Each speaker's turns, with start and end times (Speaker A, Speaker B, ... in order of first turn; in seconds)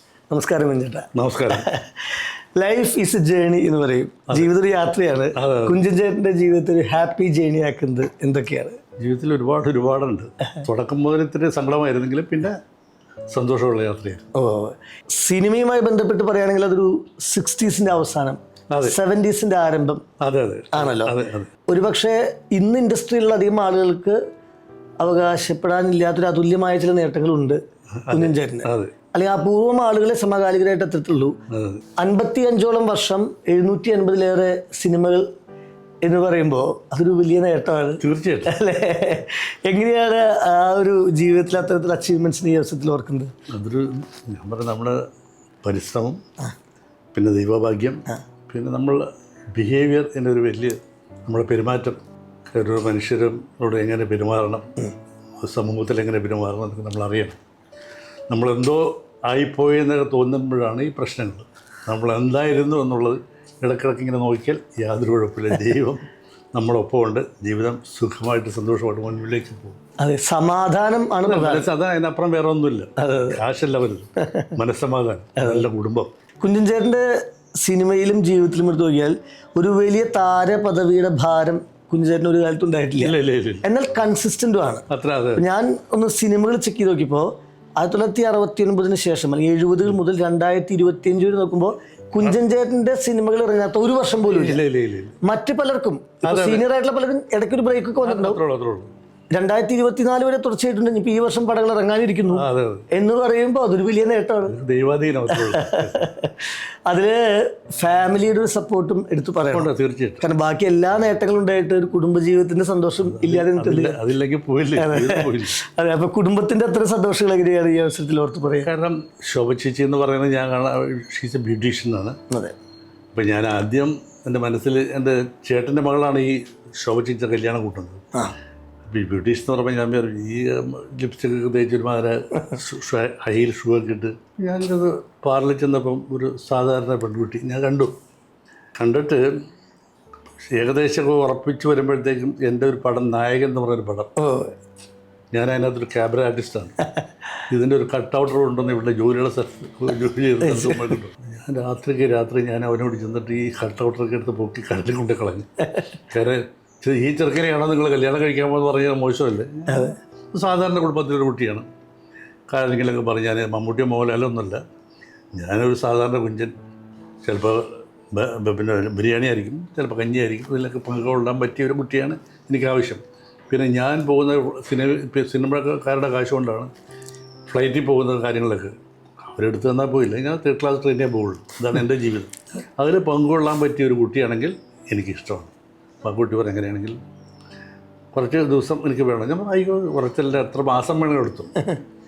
Speaker A: 0.3-8.8, 14.3-20.0, 20.7-21.1, 21.7-24.2, 25.0-27.6, 28.1-31.4, 32.0-35.2, 36.0-43.3, 70.0-71.7, 73.0-73.4, 74.2-74.5, 76.4-77.1, 77.6-84.8, 85.4-94.6, 95.2-98.4, 99.3-104.5, 105.3-109.7, 110.2-114.0, 114.8-118.7, 122.3-122.5, 144.2-144.5, 150.4-151.0, 159.7-160.0
Speaker B: 1.1-1.7, 5.4-5.8, 9.0-12.6, 13.3-14.3, 18.7-19.0, 20.2-21.5, 28.0-28.9, 31.5-31.8, 38.0-38.5, 43.5-45.0, 45.6-46.2, 47.1-52.0, 52.5-54.7, 55.4-57.4, 58.3-69.8, 71.3-76.1, 83.0-83.7, 84.9-85.4, 94.3-95.2, 96.2-96.7, 98.0-98.9, 102.3-102.9, 104.5-106.0, 109.5-110.2, 113.0-115.6, 118.6-122.2, 123.1-128.0, 128.9-137.9, 138.8-139.3, 140.5-144.1, 145.3-146.8, 147.5-155.5, 156.1-161.7, 162.5-164.6, 165.3-166.6, 167.2-176.7, 177.5-178.8, 179.3-185.5, 186.0-187.0, 188.1-191.6